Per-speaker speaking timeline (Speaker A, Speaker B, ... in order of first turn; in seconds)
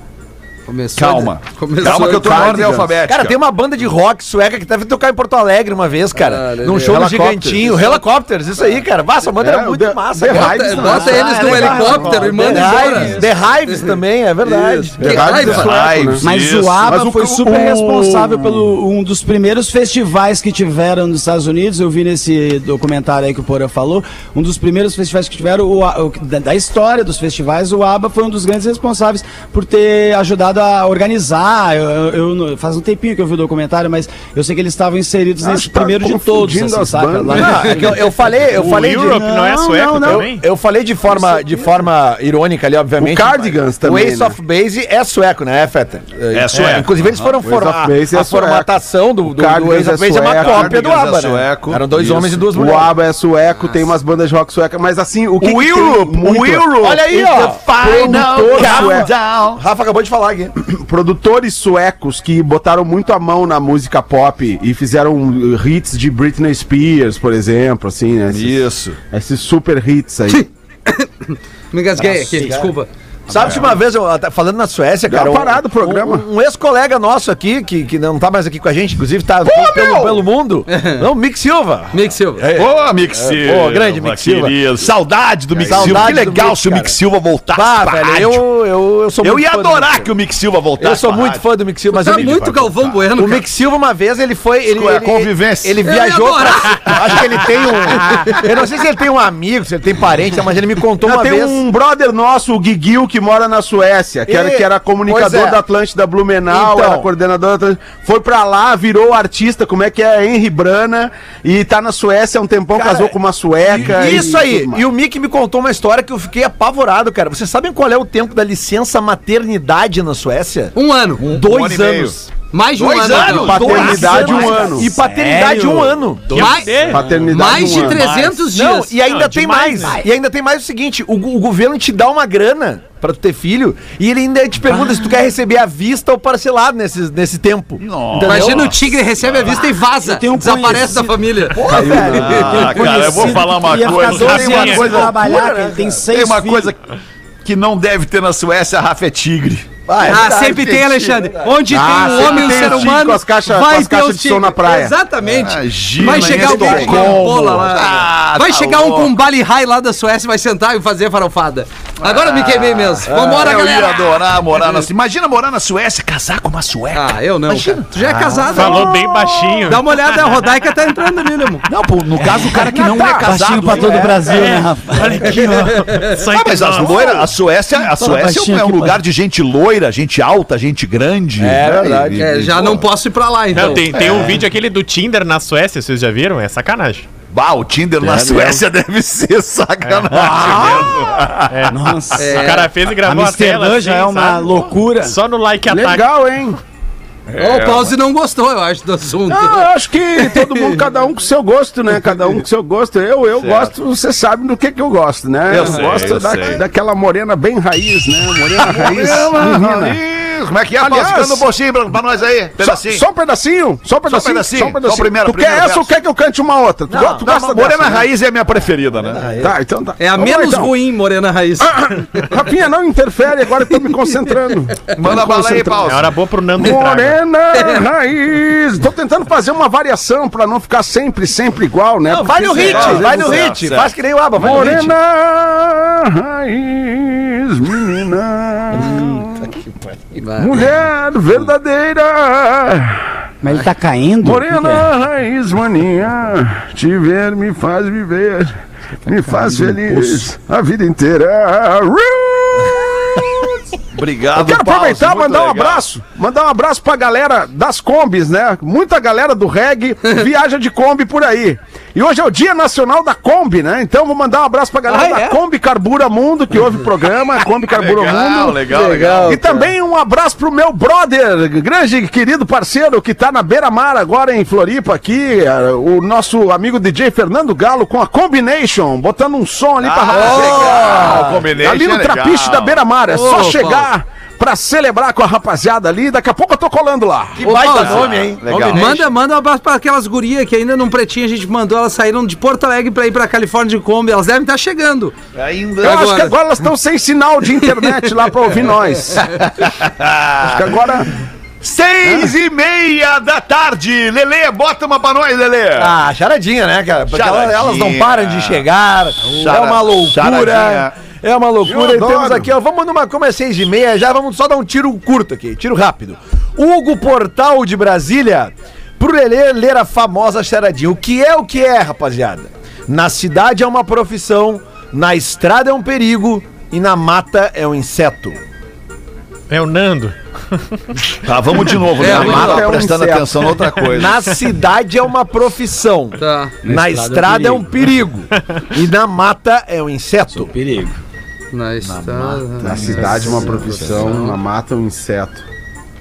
Speaker A: 0.7-2.6, 6.1-7.0, 10.3-13.2, 15.0-15.8, 53.6-53.9, 70.3-72.9, 80.7-81.0, 81.9-82.5, 91.9-93.5, 95.8-97.0, 120.8-121.2, 122.5-123.9, 126.3-128.9, 138.2-142.4, 150.0-164.0, 166.9-169.1, 169.7-171.7, 182.2-183.9, 192.2-192.7, 197.4-199.6, 200.2-200.8, 220.0-222.3, 240.1-240.6, 264.9-265.4, 268.6-269.7, 283.1-283.9, 287.5-288.0, 288.6-295.1, 295.8-296.4, 332.0-332.7, 336.2-336.6, 341.5-344.4
Speaker B: 0.9-3.4, 15.4-17.6, 46.3-47.1, 50.3-52.5, 55.4-59.6, 68.3-69.0, 73.3-73.7, 82.5-88.4, 89.2-91.4, 94.7-95.8, 97.0-98.0, 113.7-114.3, 121.2-122.2, 122.8-124.8, 137.8-139.6, 141.7-145.4, 146.1-146.8, 147.4-151.0, 151.9-152.9, 155.3-159.2, 162.0-168.8, 171.7-174.3, 176.1-182.8, 183.9-184.4, 187.3-191.9, 197.3-197.9, 203.4-203.7, 205.5-206.7, 208.5-213.0, 214.1-215.9, 217.2-219.2, 224.9-226.1, 232.5-233.9, 253.9-255.9, 267.7-269.4, 279.8-282.8, 287.4-288.9, 295.4-296.2, 299.5-300.8, 301.6-306.0, 307.1-308.7, 309.2-310.9, 331.2-334.3, 341.8-343.9
Speaker C: 1.8-3.0, 6.8-7.9, 9.4-12.5, 14.4-16.2, 16.8-18.6, 35.4-38.0, 41.1-41.4, 43.0-44.4, 47.4-50.9, 52.5-59.1, 60.6-70.5, 75.1-76.3, 79.4-80.3, 85.5-86.2, 101.0-114.8, 123.3-124.9, 126.9-128.0, 151.7-155.0, 156.6-156.9, 172.7-173.3, 195.7-196.6, 199.3-210.0, 210.8-211.5, 212.6-218.1, 219.4-220.7, 221.6-225.8, 226.6-233.6, 234.4-239.5, 240.4-243.1, 244.2-248.5, 249.1-253.6, 254.3-268.7, 269.2-287.5, 295.8-299.3, 300.4-301.2, 302.1-302.3, 311.6-312.5, 332.0-333.6, 342.6-345.4
Speaker D: 3.1-11.1, 12.3-15.6, 37.3-39.3, 39.9-52.9, 56.8-60.5, 72.0-72.7, 73.3-84.6, 85.7-87.0, 87.5-90.1, 90.8-101.6, 104.3-105.6, 106.5-107.1, 112.7-122.3, 122.8-138.8, 141.5-143.3, 144.8-146.0, 149.9-151.7, 156.1-157.2, 163.1-163.4, 181.4-182.8, 188.0-188.6, 216.9-217.3, 219.0-219.6, 232.1-234.9, 280.1-281.5, 287.4-289.1, 305.8-328.4, 333.9-340.5
Speaker E: 10.8-13.4, 16.2-38.0, 39.1-40.3, 124.3-126.1, 134.7-135.1, 139.5-146.7, 172.3-175.8, 177.9-179.0, 190.2-190.9, 191.7-195.2, 238.8-239.2, 243.4-244.9, 249.3-250.3, 336.6-337.7, 340.3-341.0, 342.8-343.4
Speaker F: 38.5-40.4, 46.5-46.9, 126.3-127.3, 129.0-130.0, 143.9-145.0, 168.5-170.4, 174.3-177.3, 183.6-187.1, 189.8-190.1, 191.5-196.1, 225.8-227.2, 329.5-330.9, 338.4-338.6